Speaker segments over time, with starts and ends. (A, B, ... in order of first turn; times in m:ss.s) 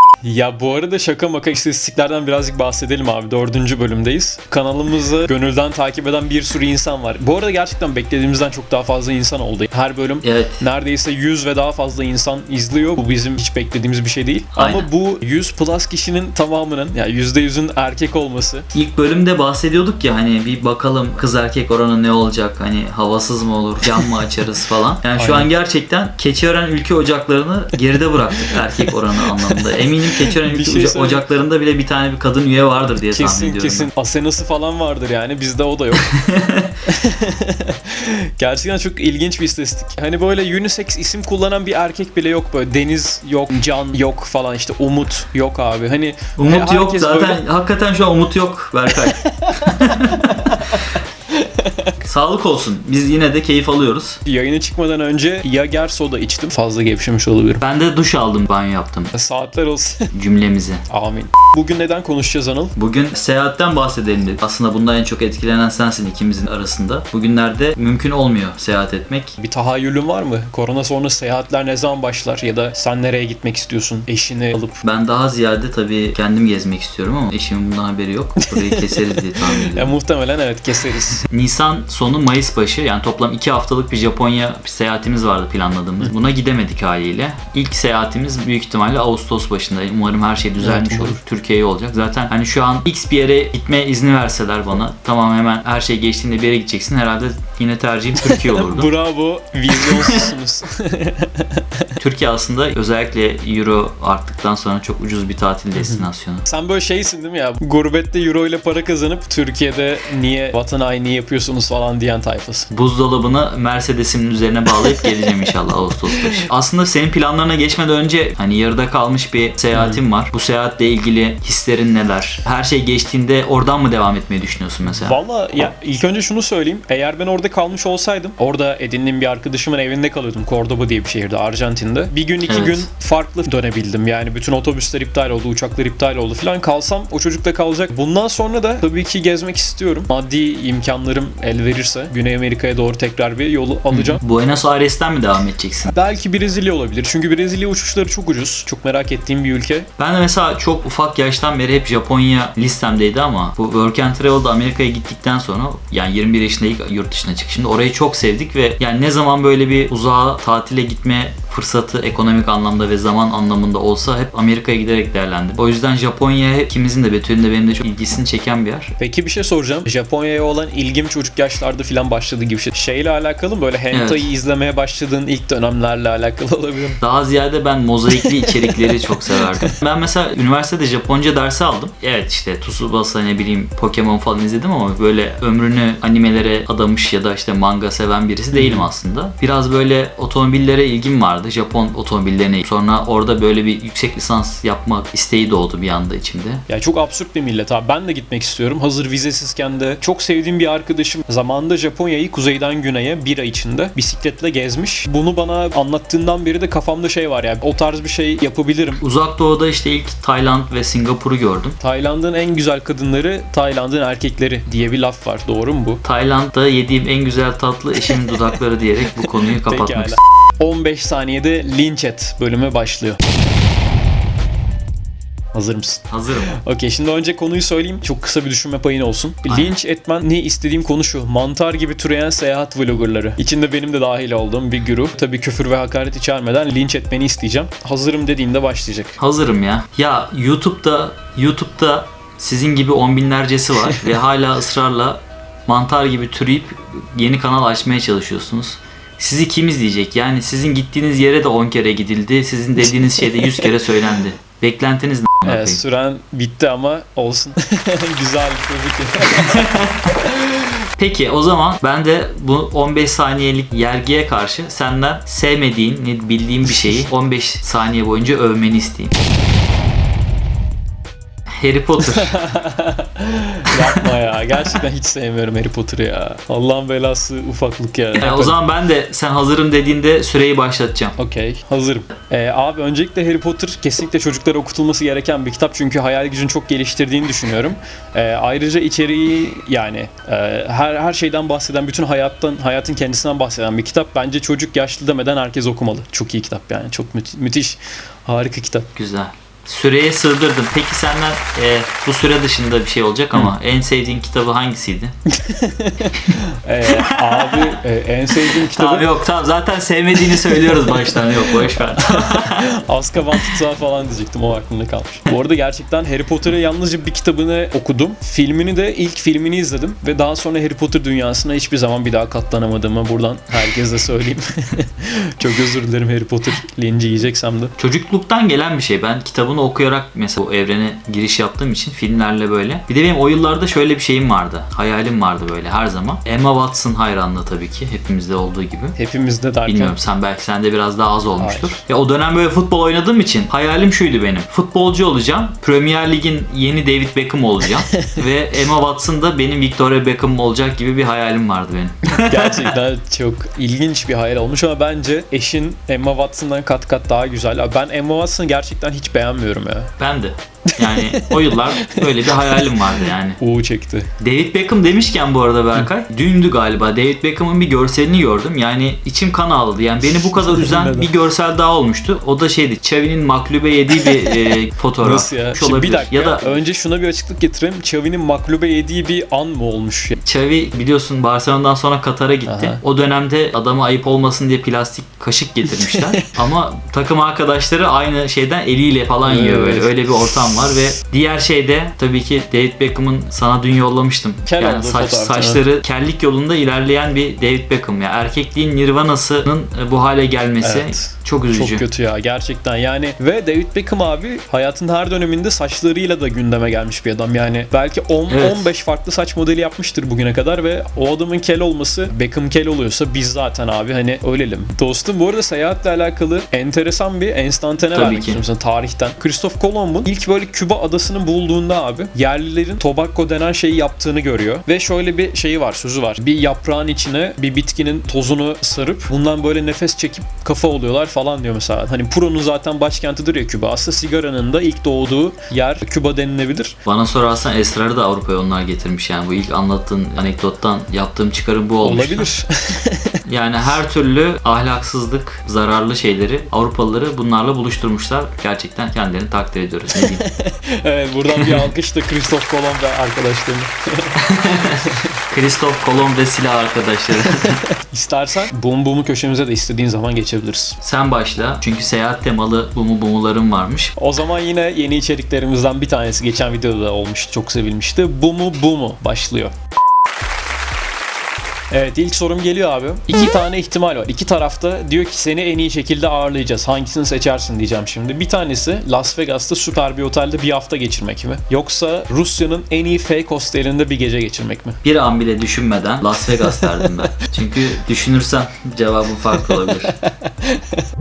0:00.2-0:18.7 A
0:10.2-0:10.6 B
0:14.5-0:14.9 B
0:18.7-0:33.9 B
0:25.2-0:25.5 A
0:28.5-0:28.9 A
0:29.4-0:31.2 A
0:33.1-0:36.1 A
0:36.0-0:36.7 B
0:36.9-0:47.4 A
0:46.4-0:50.5 B
0:49.0-0:50.8 A
0:51.3-0:51.9 A
0:52.0-0:54.2 B
0:54.3-0:57.6 A
0:57.6-0:59.1 B
0:59.1-1:00.1 A
1:00.1-1:00.8 B
1:00.9-1:02.7 A
1:02.8-1:09.4 B
1:09.4-1:14.8 A
1:14.8-1:19.9 B
1:18.4-1:21.2 A
1:21.3-1:38.9 B
1:30.6-1:31.2 A
1:38.2-1:41.8 A
1:39.7-1:40.3 B
1:42.0-1:46.4 B
1:45.8-1:52.7 A
1:52.7-2:05.2 B
1:56.0-1:56.4 A
1:59.7-2:00.0 A
2:04.8-2:24.2 A
2:12.4-2:12.9 B
2:23.9-2:25.9 B
2:25.9-2:29.9 A
2:30.0-2:48.9 B
2:49.0-2:57.0 A
2:53.9-2:54.3 B
2:57.0-3:16.6 B
2:58.1-2:59.7 A
3:08.5-3:08.9 A
3:16.7-3:29.0 A
3:29.0-3:31.8 B
3:31.8-3:36.0 A
3:36.0-3:40.2 B
3:39.5-3:43.2 A
3:45.5-3:59.2 A
3:46.1-3:46.5 B
3:49.5-3:49.8 B
3:59.2-4:15.8 B
4:13.2-4:13.7 A
4:15.4-4:19.6 A
4:19.3-4:19.9 B
4:20.2-4:20.6 A
4:21.0-4:29.1 B
4:31.6-4:32.4 B
4:32.1-4:38.6 A
4:33.7-4:34.1 B
4:38.1-4:41.1 B
4:41.2-4:58.9 A
4:58.9-5:05.1 B
5:05.3-5:09.1 A
5:06.9-5:07.8 B
5:08.6-5:12.7 B
5:10.6-5:10.9 A
5:12.1-5:27.7 A
5:27.8-5:38.9 B
5:38.9-5:40.0 A
5:39.6-5:52.7 B
5:41.4-5:41.8 A
5:52.2-5:59.9 A
6:00.0-6:03.4 B
6:00.8-6:02.7 A
6:03.4-6:04.1 A
6:04.2-6:16.6 B
6:10.1-6:11.1 A
6:15.0-6:20.2 A
6:20.2-6:41.8 B
6:22.4-6:22.8 A
6:25.7-6:26.3 A
6:29.2-6:29.9 A
6:34.5-6:35.6 A
6:40.6-7:16.8 A
6:48.3-6:48.7 B
6:57.9-6:58.4 B
7:16.8-7:22.3 B
7:21.8-7:23.2 A
7:23.3-7:30.2 B
7:30.0-7:34.1 A
7:34.2-7:37.6 B
7:37.3-7:40.8 A
7:40.8-7:43.9 B
7:44.0-7:49.5 A
7:51.7-8:04.8 A
8:04.8-8:09.9 B
8:06.5-8:06.9 A
8:10.1-8:10.8 A